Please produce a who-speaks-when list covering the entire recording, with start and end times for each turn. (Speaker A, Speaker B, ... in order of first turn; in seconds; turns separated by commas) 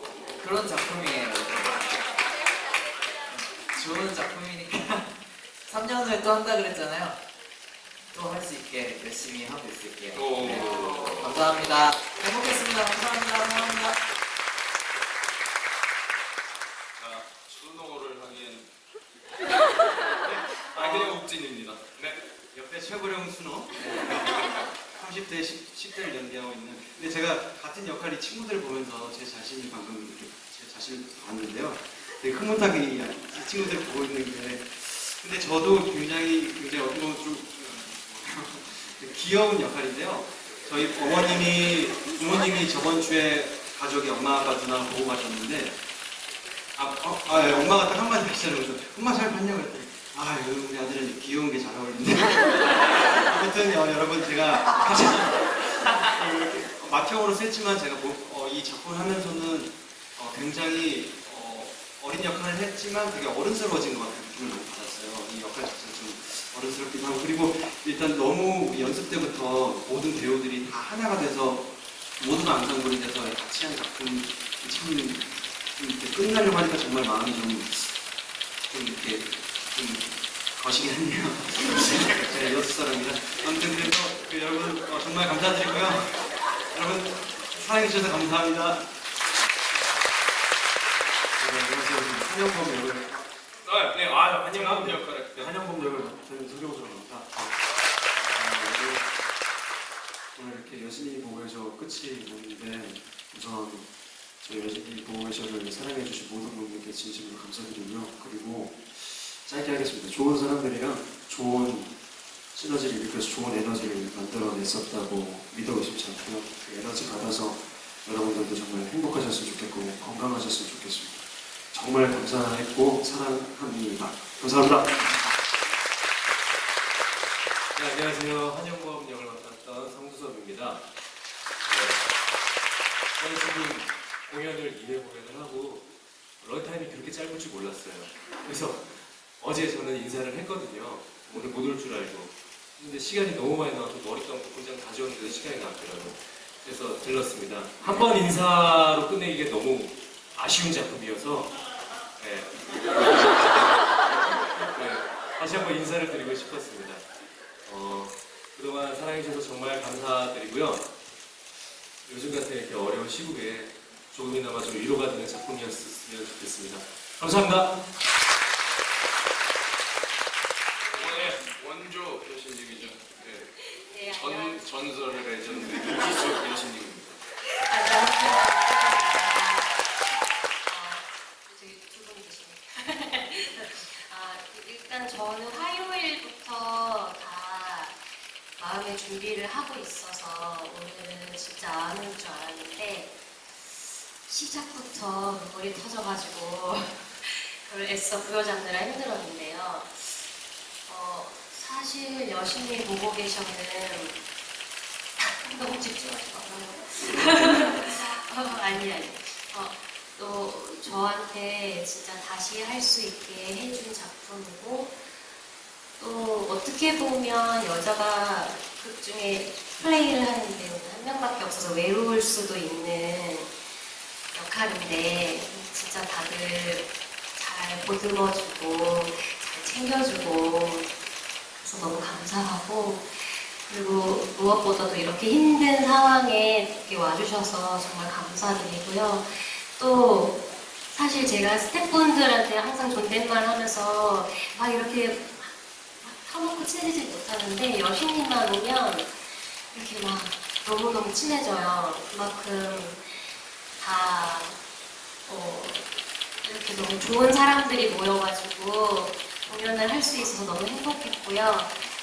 Speaker A: 0.4-1.9, Speaker A: 3.3-5.1, Speaker A: 5.7-7.2, Speaker A: 8.1-14.0, Speaker B: 10.2-11.3, Speaker B: 17.0-18.7, Speaker C: 20.2-21.2, Speaker B: 20.8-21.9, Speaker C: 22.0-45.8, Speaker C: 46.8-71.7, Speaker C: 72.2-75.2, Speaker C: 75.8-77.9, Speaker C: 78.6-88.9, Speaker D: 91.4-93.2, Speaker B: 93.8-94.0, Speaker D: 94.5-97.5, Speaker E: 94.5-95.0, Speaker B: 94.5-95.1, Speaker D: 98.2-99.1, Speaker D: 100.3-103.9, Speaker D: 104.4-111.9, Speaker D: 112.5-125.0, Speaker E: 127.7-130.9, Speaker E: 131.7-132.0, Speaker E: 133.2-135.9, Speaker E: 136.4-151.6, Speaker E: 152.2-157.0, Speaker E: 157.7-160.9, Speaker E: 162.1-167.8, Speaker F: 170.8-171.4, Speaker B: 171.0-173.5, Speaker F: 173.5-174.9, Speaker B: 174.1-177.1, Speaker F: 177.4-193.2, Speaker F: 194.2-200.3, Speaker F: 200.9-204.2, Speaker F: 205.2-215.1, Speaker F: 216.0-223.6, Speaker F: 224.3-230.9, Speaker F: 231.6-240.4, Speaker F: 240.9-249.2, Speaker F: 249.7-254.6, Speaker F: 255.2-255.9, Speaker F: 256.4-261.8